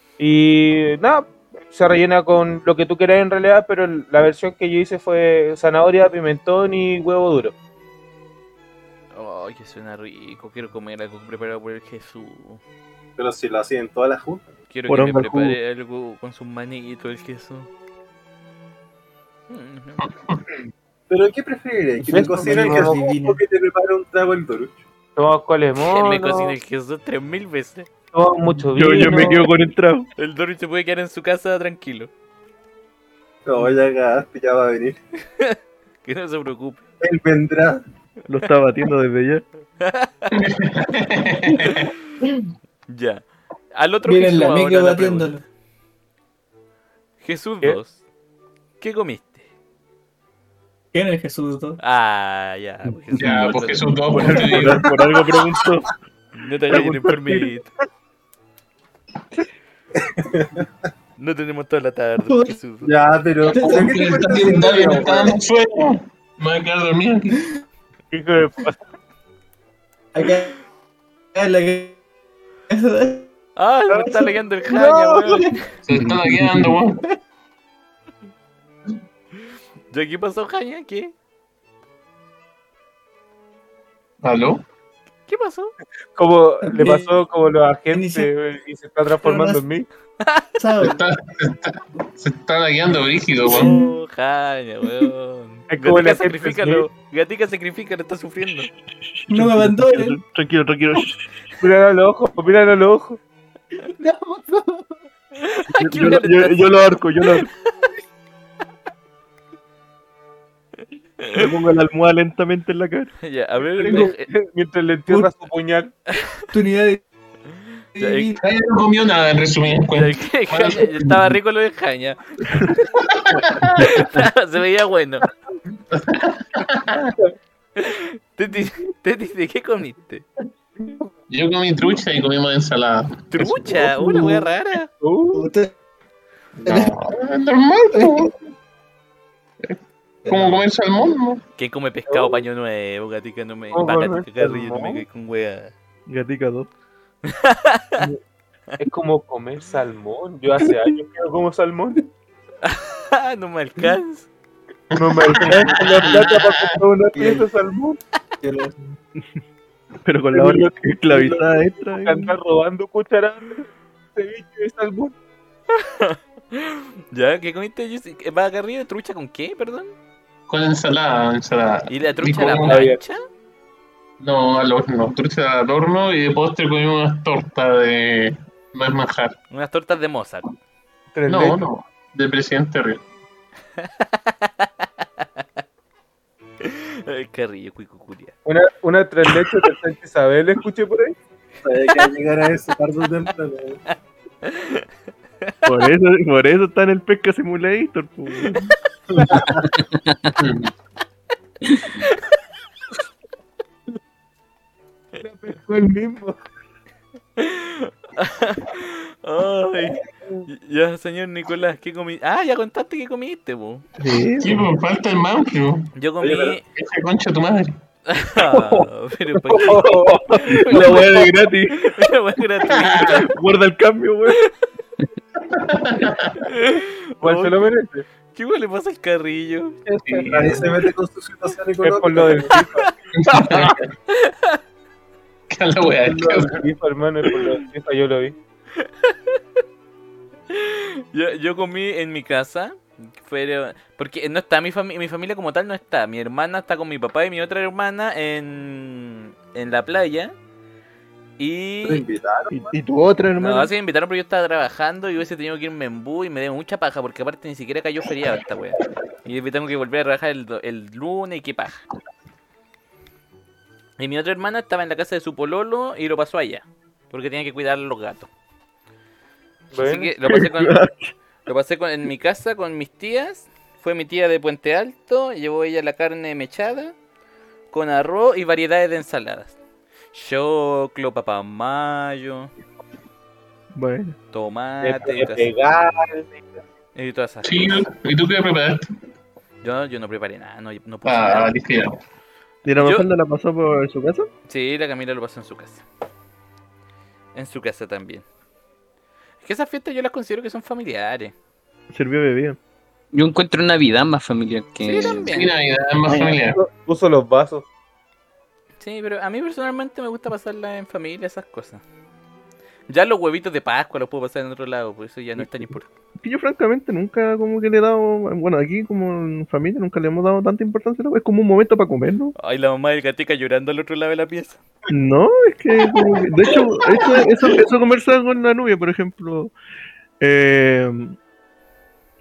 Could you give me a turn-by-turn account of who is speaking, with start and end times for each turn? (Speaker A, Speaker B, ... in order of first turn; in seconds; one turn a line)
Speaker A: 0.2-7.5
Speaker B: 9.1-12.6
Speaker C: 13.2-14.5
Speaker B: 14.7-17.7
Speaker D: 14.9-15.6
Speaker B: 19.5-20.0
Speaker E: 20.1-20.4
Speaker C: 21.1-24.8
Speaker F: 22.0-23.4
Speaker A: 22.1-22.9
Speaker A: 25.1-26.6
Speaker B: 25.8-27.9
Speaker A: 28.1-29.5
Speaker D: 28.7-30.1
Speaker B: 30.2-32.1
Speaker C: 33.5-35.0
Speaker B: 35.4-36.8
Speaker C: 37.0-37.8
Speaker D: 38.3-39.4
Speaker B: 39.8-40.3
Speaker E: 40.3-41.9
Speaker B: 42.9-43.2
Speaker B: 43.7-45.3
Speaker F: 44.0-45.4
Speaker B: 47.2-48.0
Speaker B: 48.8-49.5
Speaker F: 50.9-51.8
Speaker B: 51.8-54.0
Speaker E: 53.2-54.9
Speaker D: 54.1-55.9
Speaker B: 56.3-57.7
Speaker D: 56.7-57.5
Speaker C: 60.0-60.7
Speaker B: 61.2-62.9
Speaker F: 62.2-62.6
Speaker C: 62.8-65.3
Speaker E: 63.4-67.4
Speaker F: 63.5-64.9
Speaker A: 68.1-68.8
Speaker F: 70.1-70.5
Speaker F: 71.3-72.0
Speaker F: 72.7-73.3
Speaker B: 73.5-75.6
Speaker A: 73.9-75.3
Speaker E: 75.8-77.0
Speaker B: 79.9-81.1
Speaker E: 84.2-84.6
Speaker B: 85.3-85.7
Speaker A: 86.2-89.9
Speaker F: 86.6-87.2
Speaker F: 87.9-88.3
Speaker F: 89.2-89.6
Speaker B: 90.2-90.5
Speaker F: 90.6-91.0
Speaker E: 90.8-93.7
Speaker F: 93.5-93.8
Speaker B: 93.5-98.7
Speaker A: 95.7-96.9
Speaker D: 99.0-101.3
Speaker F: 99.3-100.2
Speaker A: 101.6-103.2
Speaker F: 103.8-105.0
Speaker B: 105.4-107.9
Speaker D: 105.8-107.5
Speaker D: 111.3-113.1
Speaker B: 113.2-114.3
Speaker E: 113.8-114.1
Speaker A: 113.9-115.9
Speaker F: 116.5-117.0
Speaker F: 118.0-118.4
Speaker B: 118.0-118.3
Speaker E: 118.4-121.3
Speaker B: 119.9-122.2
Speaker E: 123.1-124.1
Speaker B: 123.9-125.3
Speaker E: 125.9-127.1
Speaker B: 127.8-130.2
Speaker E: 131.3-133.9
Speaker B: 133.3-134.9
Speaker A: 135.0-135.5
Speaker F: 135.3-135.7
Speaker E: 136.6-138.4
Speaker E: 139.6-141.4
Speaker F: 140.2-140.6
Speaker B: 141.6-145.7
Speaker A: 142.1-142.4
Speaker A: 143.7-145.0
Speaker D: 146.1-146.7
Speaker B: 147.3-148.0
Speaker A: 148.8-152.0
Speaker B: 152.6-154.3
Speaker E: 154.9-156.8
Speaker A: 154.9-158.0
Speaker F: 157.1-157.4
Speaker F: 158.4-158.7
Speaker D: 160.0-162.3
Speaker A: 160.3-165.1
Speaker B: 165.7-169.9
Speaker E: 170.5-172.9
Speaker B: 171.9-173.2
Speaker A: 172.7-173.0
Speaker E: 174.2-179.3
Speaker B: 179.5-180.5
Speaker A: 181.1-181.6
Speaker E: 181.3-183.0
Speaker B: 183.8-184.8
Speaker B: 186.6-188.3
Speaker A: 188.4-191.1
Speaker C: 191.6-193.8
Speaker B: 194.4-194.8
Speaker D: 195.7-198.7
Speaker C: 199.2-199.7
Speaker G: 200.0-200.3
Speaker E: 200.4-200.7
Speaker A: 205.2-206.4
Speaker B: 207.4-213.8
Speaker D: 214.0-214.7
Speaker E: 214.4-215.9
Speaker B: 215.9-216.6
Speaker C: 216.2-216.5
Speaker E: 216.7-217.7
Speaker B: 218.1-223.2
Speaker A: 219.4-221.0
Speaker D: 219.6-222.1
Speaker E: 222.7-223.2
Speaker D: 223.2-224.4
Speaker E: 225.5-226.4
Speaker B: 226.4-227.6
Speaker A: 227.2-228.0
Speaker B: 228.3-229.8
Speaker E: 230.0-230.8
Speaker A: 230.1-230.5
Speaker C: 230.3-232.5
Speaker A: 231.8-232.9
Speaker B: 232.5-232.9
Speaker E: 233.2-233.8
Speaker B: 233.5-234.6
Speaker E: 235.5-236.6
Speaker A: 236.0-238.3
Speaker B: 238.9-239.4
Speaker B: 240.5-250.3
Speaker B: 251.4-252.0
Speaker C: 251.8-252.7
Speaker D: 252.5-253.7
Speaker B: 253.4-261.8
Speaker B: 264.0-268.3
Speaker A: 269.7-270.1
Speaker B: 269.8-270.8
Speaker D: 270.2-271.1
Speaker B: 271.5-276.9
Speaker B: 277.7-279.6
Speaker B: 280.1-282.5
Speaker D: 283.7-284.2
Speaker B: 284.3-285.5
Speaker A: 284.8-286.4
Speaker B: 286.9-287.8
Speaker E: 287.4-288.9
Speaker B: 289.6-291.6
Speaker E: 291.0-292.0
Speaker D: 292.6-294.3
Speaker B: 292.8-293.1
Speaker B: 294.5-295.8
Speaker B: 297.3-298.2
Speaker B: 299.4-301.3
Speaker D: 301.9-302.6
Speaker G: 303.1-305.3
Speaker B: 304.8-305.5
Speaker E: 305.3-306.6
Speaker A: 306.1-307.6
Speaker B: 308.8-311.8
Speaker B: 312.9-315.9
Speaker D: 315.4-315.7
Speaker D: 316.2-322.3
Speaker B: 322.4-324.6
Speaker D: 324.9-329.5
Speaker D: 330.2-331.2